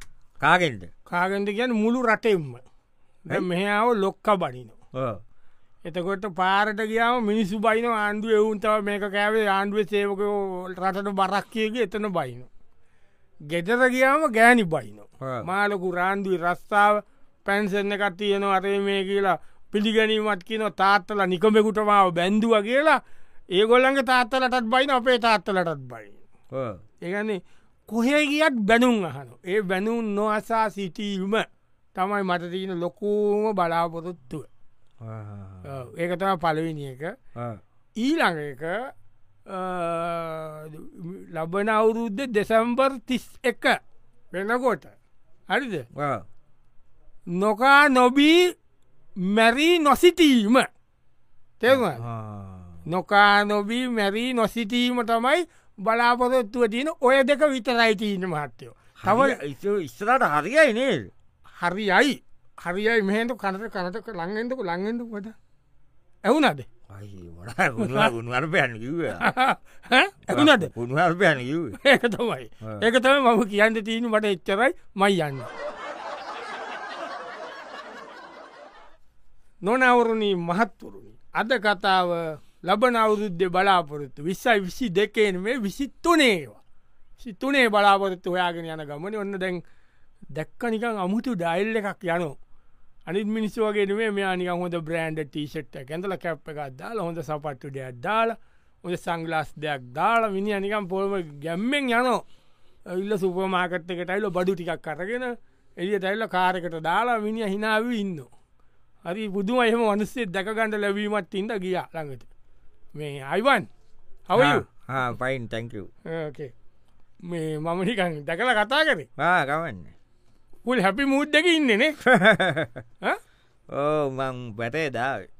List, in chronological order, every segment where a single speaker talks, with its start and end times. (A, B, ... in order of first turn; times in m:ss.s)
0:00.4-0:00.9 A
0:01.1-0:02.6 B
0:03.2-0:04.8 B
0:04.9-0:05.2 A
0:05.8-0:12.5 B
0:13.5-0:23.0 B
0:15.2-0:15.5 A
0:23.5-0:26.2 B
0:26.5-0:26.8 A
0:27.0-0:34.5 B
0:35.0-0:35.7 A
0:35.6-0:37.1 B
0:38.0-0:38.9 B
0:39.5-0:43.8 B
0:44.3-0:44.9 B
0:45.5-0:45.8 B
0:45.9-0:46.2 A
0:47.3-0:48.5 B
0:49.2-0:50.7 B
0:51.6-0:52.0 B
0:51.7-0:52.8 A
0:52.9-0:59.4 B
0:59.0-1:01.1 A
1:01.6-1:05.4 B
1:06.2-1:06.6 B
1:06.9-1:09.2 A
1:07.8-1:08.1 B
1:09.2-1:10.7 B
1:10.3-1:11.8 A
1:11.8-1:15.5 B
1:19.6-1:26.6 B
1:27.2-1:29.6 B
1:30.3-1:32.4 B
1:33.0-1:42.2 B
1:42.9-1:48.3 B
1:49.0-1:52.3 B
1:52.9-1:53.7 B
1:54.3-1:54.6 B
1:54.3-1:55.9 A
1:56.1-1:56.5 B
1:57.2-1:59.1 B
1:59.2-1:59.9 A
2:00.6-2:02.0 B
2:02.0-2:02.8 A
2:03.7-2:05.3 A